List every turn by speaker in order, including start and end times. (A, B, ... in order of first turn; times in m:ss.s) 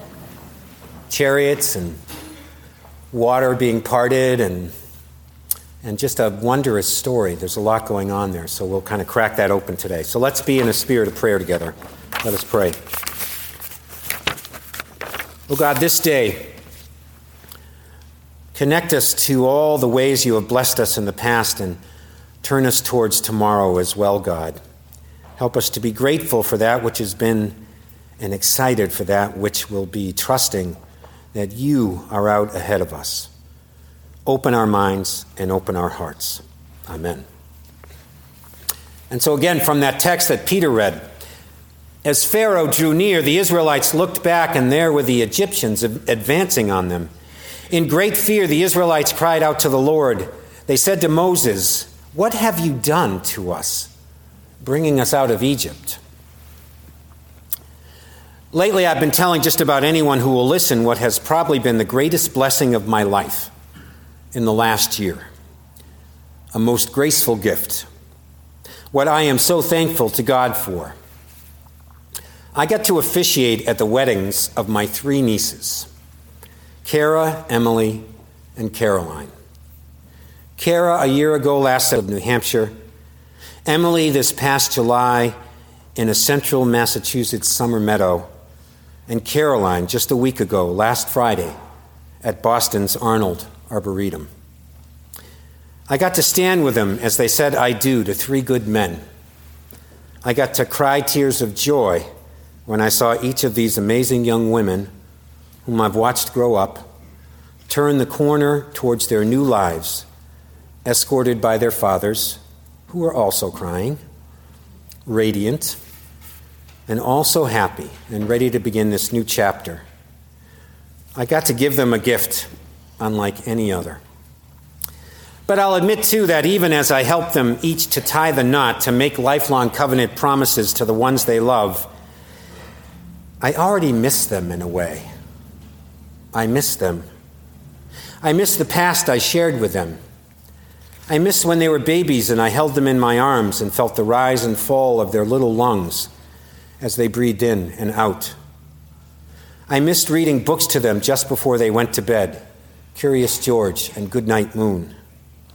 0:01.1-0:02.0 A
0:03.1-0:04.7 A
0:05.8-0:12.8 A
0:15.5-0:16.5 A
0:18.5-0:21.8 A
0:22.4-0:24.6 A
0:25.4-0:27.6 A
0:28.2-0:30.8 A
0:31.3-0:33.3 A
0:34.2-0:37.2 A
0:39.1-0:41.1 A
0:42.0-0:47.1 A
0:47.7-0:53.9 A
0:54.6-0:56.0 A
0:58.5-1:03.5 A
1:04.3-1:05.2 A
1:06.5-1:07.9 A
1:08.9-1:10.9 A
1:12.5-1:15.9 A
1:16.8-1:19.3 A
1:20.6-1:22.7 A
1:23.6-1:25.3 A
1:26.0-1:28.3 A
1:29.1-1:31.5 A
1:32.2-1:34.3 A
1:35.9-1:39.0 A
1:40.2-1:42.0 A
1:42.6-1:44.9 A
1:45.6-1:46.9 A
1:47.7-1:50.0 A
1:50.8-1:54.0 A
1:55.0-1:55.8 A
1:56.9-1:59.8 A
2:01.2-2:04.0 A
2:05.5-2:11.9 A
2:13.4-2:15.1 A
2:16.3-2:17.0 A
2:18.2-2:20.0 A
2:21.1-2:26.1 A
2:26.8-2:28.3 A
2:29.7-2:32.4 A
2:32.9-2:34.9 A